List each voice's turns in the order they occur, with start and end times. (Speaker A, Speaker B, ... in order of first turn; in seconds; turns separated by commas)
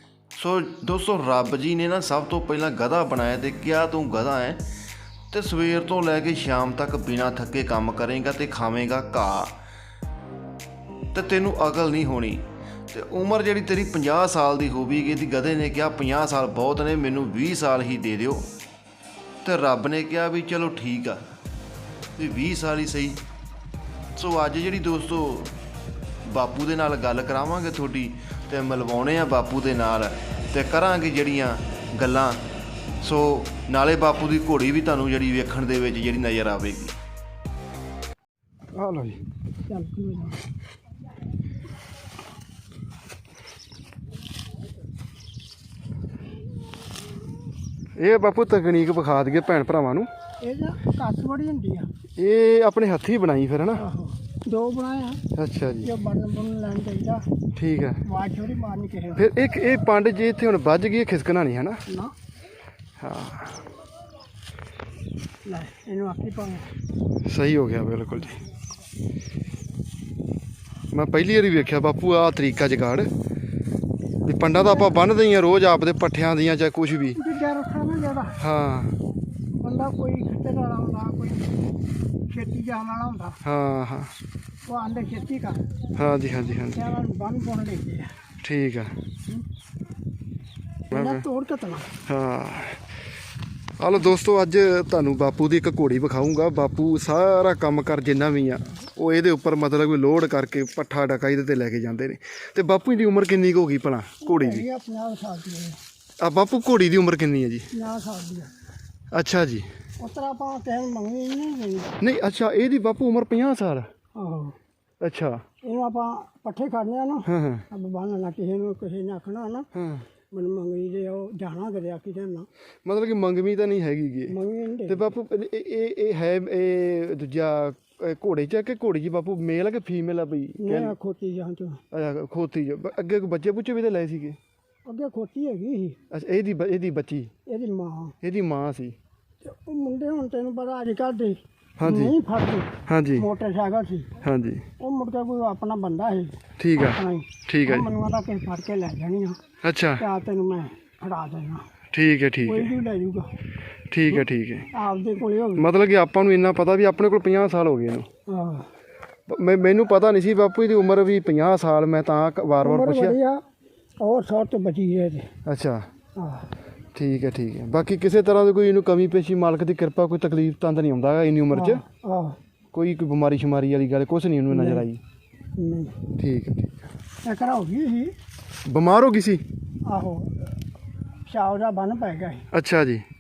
Speaker A: 0.3-4.6, Speaker A: 5.3-9.5, Speaker A: 11.1-18.5, Speaker A: 19.4-21.2, Speaker A: 22.2-23.2, Speaker A: 24.1-25.5, Speaker A: 26.2-32.4, Speaker A: 33.0-37.0, Speaker B: 38.7-39.2, Speaker C: 39.7-40.4, Speaker B: 48.0-50.1, Speaker C: 50.4-51.9, Speaker B: 52.2-53.8, Speaker C: 53.8-55.2, Speaker B: 55.3-55.9, Speaker C: 55.8-57.2, Speaker B: 57.5-58.0, Speaker C: 58.0-59.3, Speaker B: 59.2-61.8, Speaker C: 61.9-62.1, Speaker B: 63.0-63.6, Speaker C: 65.4-66.7, Speaker B: 67.2-68.4, Speaker B: 70.9-73.1, Speaker B: 74.2-77.2, Speaker C: 77.2-78.4, Speaker B: 78.4-79.0, Speaker C: 79.5-81.5, Speaker C: 82.3-83.4, Speaker B: 83.4-84.1, Speaker C: 84.7-85.6, Speaker B: 86.0-86.9, Speaker C: 86.7-88.2, Speaker B: 88.4-88.9, Speaker C: 90.9-91.9, Speaker B: 90.9-91.2, Speaker B: 92.1-92.8, Speaker B: 93.8-104.7, Speaker C: 104.2-105.8, Speaker B: 106.2-107.7, Speaker C: 107.7-108.5, Speaker B: 109.1-109.7, Speaker C: 110.0-111.9, Speaker B: 112.0-113.9, Speaker C: 114.1-114.5, Speaker B: 115.0-115.4, Speaker C: 115.6-119.7, Speaker B: 117.2-117.6, Speaker B: 119.7-120.0, Speaker C: 120.3-122.5, Speaker B: 122.8-124.3, Speaker C: 124.3-125.1, Speaker B: 124.9-130.9, Speaker C: 130.6-131.8, Speaker B: 131.9-134.4, Speaker C: 134.8-136.0, Speaker B: 136.1-137.3, Speaker C: 137.4-138.2, Speaker B: 138.2-138.9, Speaker C: 139.4-144.1, Speaker B: 141.8-142.2, Speaker B: 142.9-143.3, Speaker B: 144.2-144.6, Speaker C: 144.8-149.4, Speaker B: 146.6-147.9, Speaker B: 149.6-150.0, Speaker C: 150.0-151.6, Speaker B: 151.9-152.7, Speaker C: 152.4-153.3, Speaker B: 153.9-154.7, Speaker C: 154.7-155.7, Speaker B: 155.6-158.1, Speaker C: 158.3-158.7, Speaker B: 159.3-163.2, Speaker C: 162.6-163.4, Speaker C: 164.0-165.3, Speaker B: 165.4-165.8, Speaker C: 166.2-166.5, Speaker B: 166.9-171.8, Speaker C: 171.5-172.4, Speaker B: 172.7-175.0, Speaker C: 174.5-174.8, Speaker C: 175.6-175.9, Speaker B: 176.2-176.7, Speaker C: 177.2-178.1, Speaker B: 178.7-179.4, Speaker C: 179.8-180.5, Speaker C: 181.2-182.4, Speaker B: 182.5-183.0